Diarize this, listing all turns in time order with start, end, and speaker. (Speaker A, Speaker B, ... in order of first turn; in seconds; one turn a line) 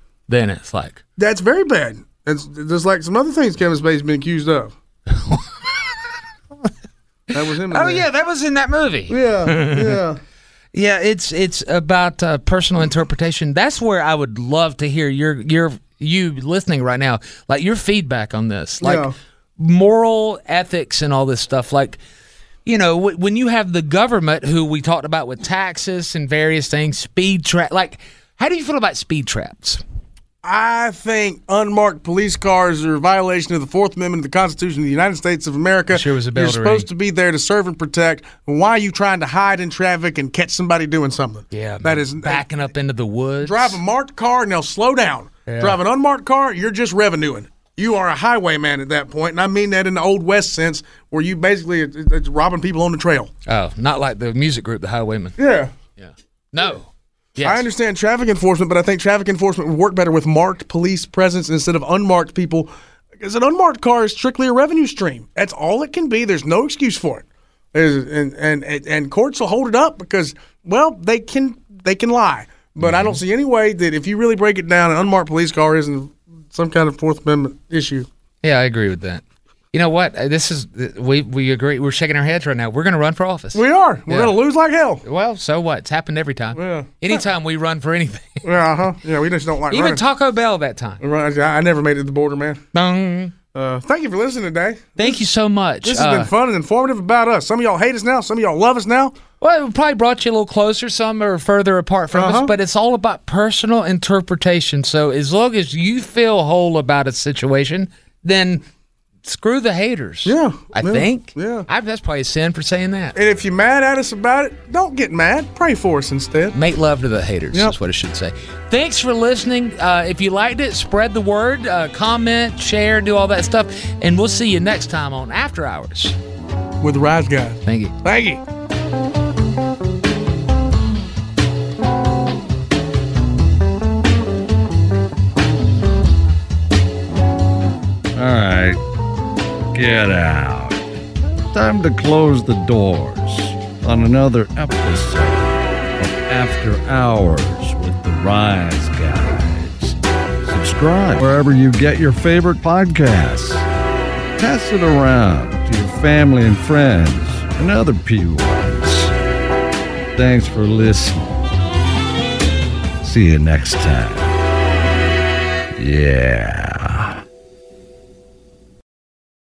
Speaker A: 0.3-1.0
Speaker B: 1.2-4.7
Speaker A: 5.1-6.0
Speaker A: 7.3-10.0
Speaker B: 7.3-8.1
Speaker B: 9.1-10.2
Speaker A: 10.7-22.0
Speaker B: 18.8-19.1
Speaker A: 22.6-29.8
Speaker B: 30.4-42.4
Speaker A: 35.9-36.9
Speaker A: 41.5-43.8
Speaker B: 43.4-53.3
Speaker A: 45.5-45.8
Speaker A: 53.5-55.4
Speaker B: 55.4-55.7
Speaker A: 56.0-57.7
Speaker B: 57.4-78.1
Speaker A: 72.8-73.2
Speaker A: 78.4-84.3
Speaker B: 83.5-85.0
Speaker A: 85.0-88.4
Speaker B: 86.5-87.3
Speaker B: 88.4-90.0
Speaker A: 89.7-91.0
Speaker B: 91.0-92.6
Speaker A: 92.7-93.3
Speaker B: 93.5-95.2
Speaker A: 95.0-96.3
Speaker B: 95.8-99.2
Speaker A: 99.4-108.6
Speaker B: 102.1-102.5
Speaker A: 109.2-113.2
Speaker B: 110.2-111.7
Speaker B: 113.1-116.5
Speaker A: 116.5-126.2
Speaker B: 126.8-128.4
Speaker A: 127.7-127.9
Speaker C: 138.1-138.8
Speaker C: 139.7-140.8
Speaker C: 141.5-153.7
Speaker C: 154.4-159.1
Speaker C: 160.1-161.4
Speaker C: 163.0-164.3
Speaker C: 165.7-167.2